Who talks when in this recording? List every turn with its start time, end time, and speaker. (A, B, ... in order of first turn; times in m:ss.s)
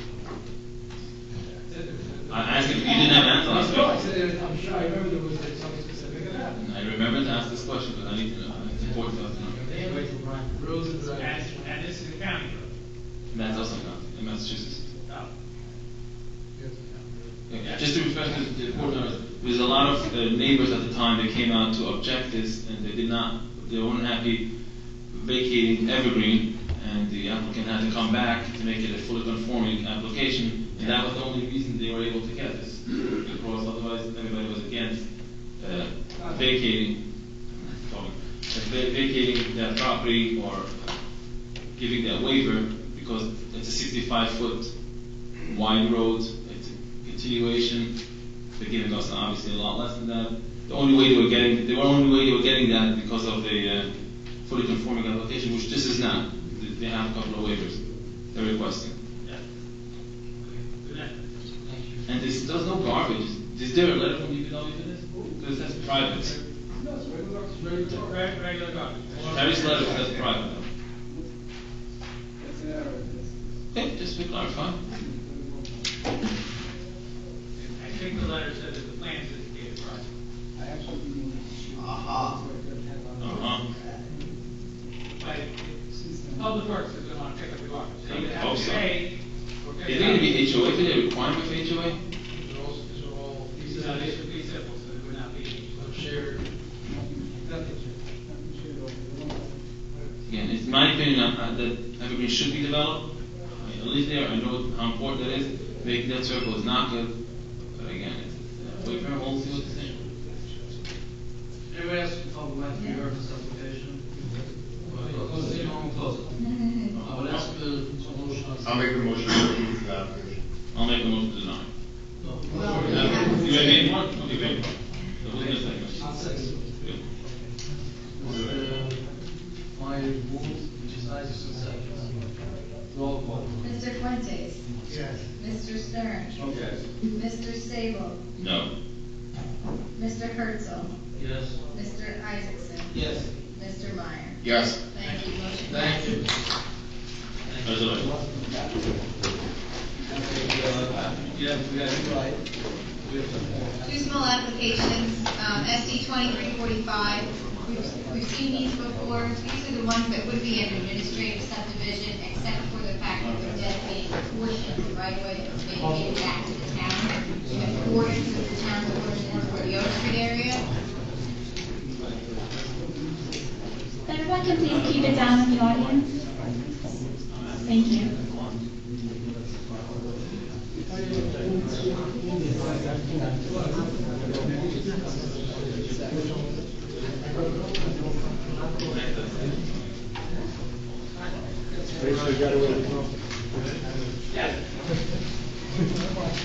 0:01.5-0:03.9 A
0:02.3-0:04.0 B
0:04.0-0:04.7 C
0:06.6-0:09.6 B
0:09.5-0:11.6 C
0:09.7-0:10.0 A
0:11.0-0:12.7 A
0:13.3-0:14.8 B
0:17.5-0:24.4 B
0:25.1-0:35.1 B
0:35.6-0:37.0 B
0:37.5-0:40.9 B
0:41.8-0:44.7 B
0:45.5-0:47.9 B
0:48.6-0:53.9 B
0:54.4-0:57.8 B
0:58.3-0:59.0 B
1:00.4-1:00.7 C
1:00.8-1:01.2 A
1:01.6-1:02.0 C
1:02.1-1:06.4 B
1:07.9-1:10.1 A
1:09.2-1:10.7 B
1:13.7-1:14.8 B
1:17.6-1:20.1 A
1:21.8-1:22.4 D
1:23.2-1:23.6 B
1:25.2-1:25.8 A
1:26.4-1:30.5 A
1:28.1-1:28.9 B
1:29.8-1:32.0 B
1:33.6-1:36.0 A
1:33.8-1:34.1 C
1:35.8-1:36.4 C
1:40.3-1:47.1 B
1:47.7-1:50.0 B
1:51.7-1:54.1 C
1:52.8-1:53.0 E
1:54.8-1:56.4 C
1:56.4-1:57.0 E
1:57.0-1:58.9 C
1:57.0-1:57.3 B
1:58.6-2:00.4 D
2:00.7-2:01.7 B
2:02.2-2:03.7 C
2:02.5-2:03.9 E
2:02.8-2:04.7 B
2:05.2-2:06.1 B
2:05.3-2:06.7 C
2:08.2-2:09.0 C
2:08.2-2:08.6 D
2:09.7-2:12.2 C
2:12.9-2:13.6 C
2:13.6-2:14.6 E
2:15.4-2:16.5 E
2:16.4-2:16.8 C
2:17.0-2:18.2 E
2:18.4-2:18.7 B
2:20.0-2:20.9 E
2:21.1-2:21.6 C
2:21.7-2:26.2 E
2:22.9-2:23.3 C
2:24.4-2:24.8 B
2:25.7-2:26.3 C
2:27.5-2:28.1 C
2:27.6-2:28.1 B
2:30.1-2:32.4 C
2:33.0-2:33.9 C
2:33.8-2:50.7 E
2:54.1-2:56.0 F
2:57.3-2:57.6 B
2:57.7-2:58.1 F
3:08.8-3:09.8 B
3:11.7-3:12.9 C
3:14.3-3:14.6 A